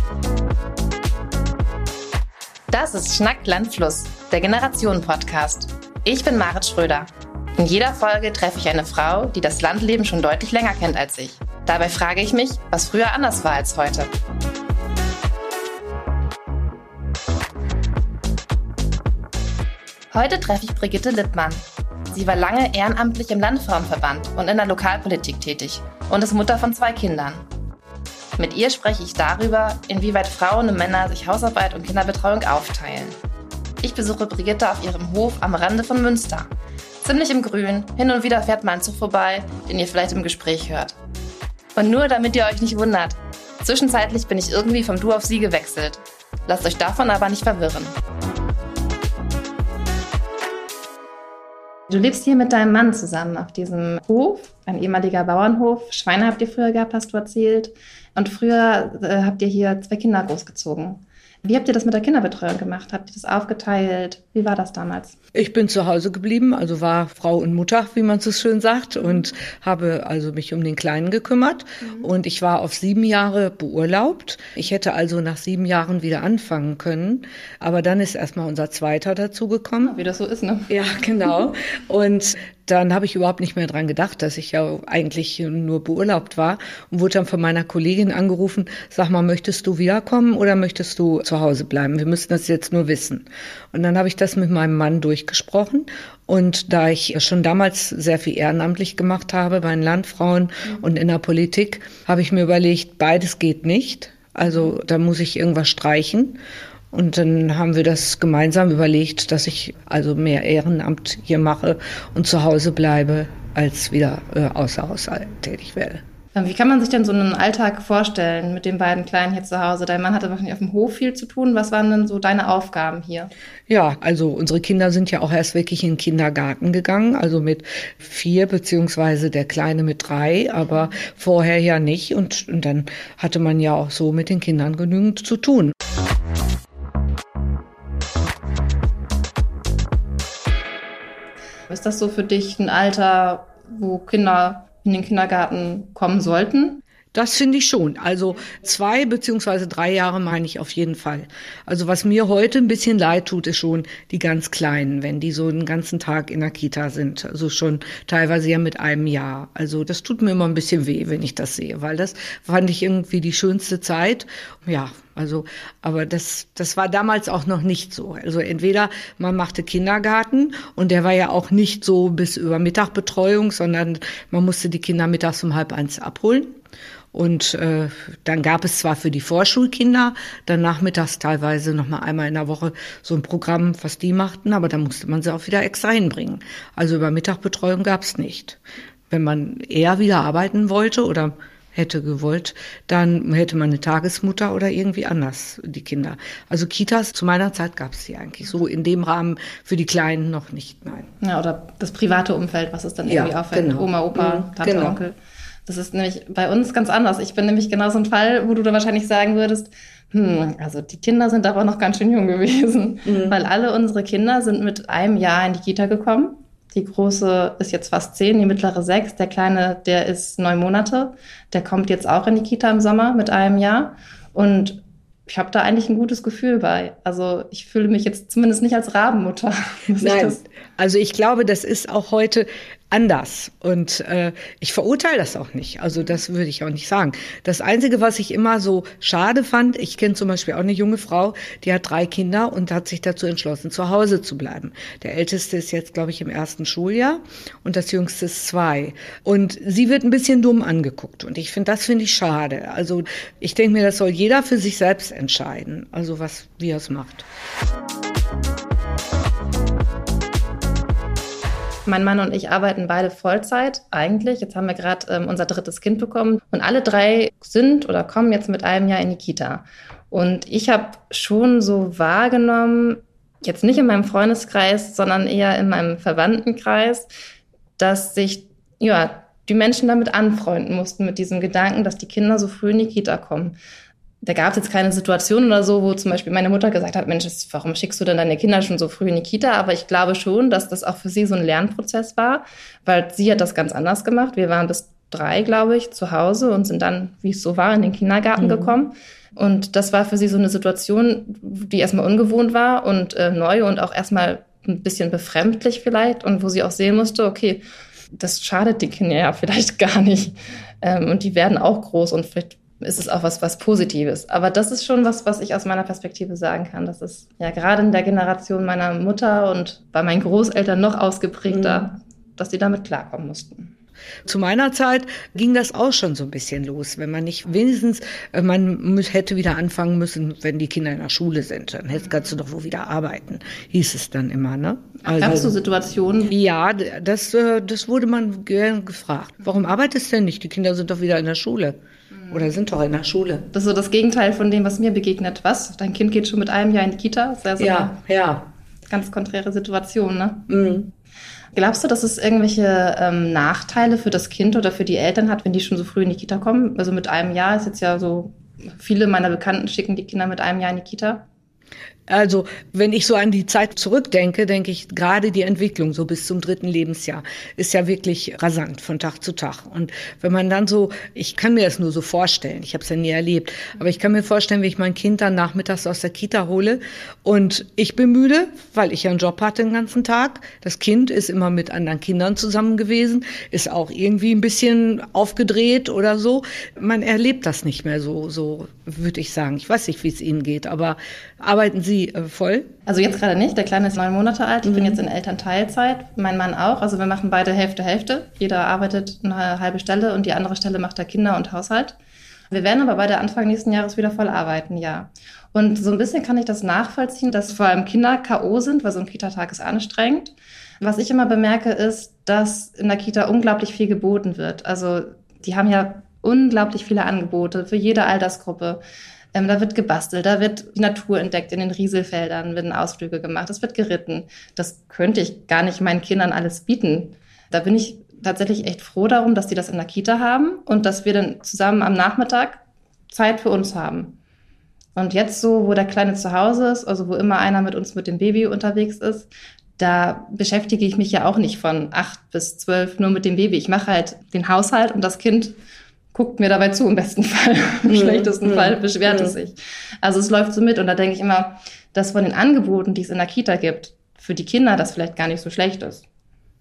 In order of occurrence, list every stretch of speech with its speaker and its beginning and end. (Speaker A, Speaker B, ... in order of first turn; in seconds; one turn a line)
Speaker A: 2.7-14.1
Speaker A: 20.1-27.4
Speaker A: 28.4-33.2
Speaker A: 33.8-36.5
Speaker A: 37.0-41.0
Speaker A: 41.8-48.0
Speaker A: 51.9-65.2
Speaker B: 65.3-80.0
Speaker A: 71.8-72.1
Speaker A: 79.8-80.7
Speaker B: 80.7-106.4
Speaker B: 106.9-116.0
Speaker A: 116.3-123.3
Speaker B: 123.7-135.7
Speaker A: 141.7-146.8
Speaker B: 147.1-176.6
Speaker B: 177.1-188.6
Speaker B: 189.1-201.1
Speaker A: 201.2-230.4
Speaker B: 203.1-205.0
Speaker B: 213.1-213.3
Speaker B: 230.0-257.3
Speaker A: 261.9-277.1
Speaker A: 277.8-283.6
Speaker A: 284.2-323.7
Speaker B: 298.4-298.7
Speaker B: 321.5-321.9
Speaker B: 324.2-335.5
Speaker A: 335.0-336.3
Speaker B: 336.3-341.8
Speaker B: 342.3-343.5
Speaker A: 343.5-348.0
Speaker B: 347.6-348.5
Speaker A: 348.9-350.5
Speaker B: 350.5-350.9
Speaker A: 351.5-361.2
Speaker B: 362.1-392.7
Speaker A: 392.9-402.0
Speaker B: 394.6-395.0
Speaker A: 402.5-418.8
Speaker A: 419.3-434.2
Speaker A: 435.0-445.6
Speaker A: 446.1-456.0
Speaker B: 447.9-449.4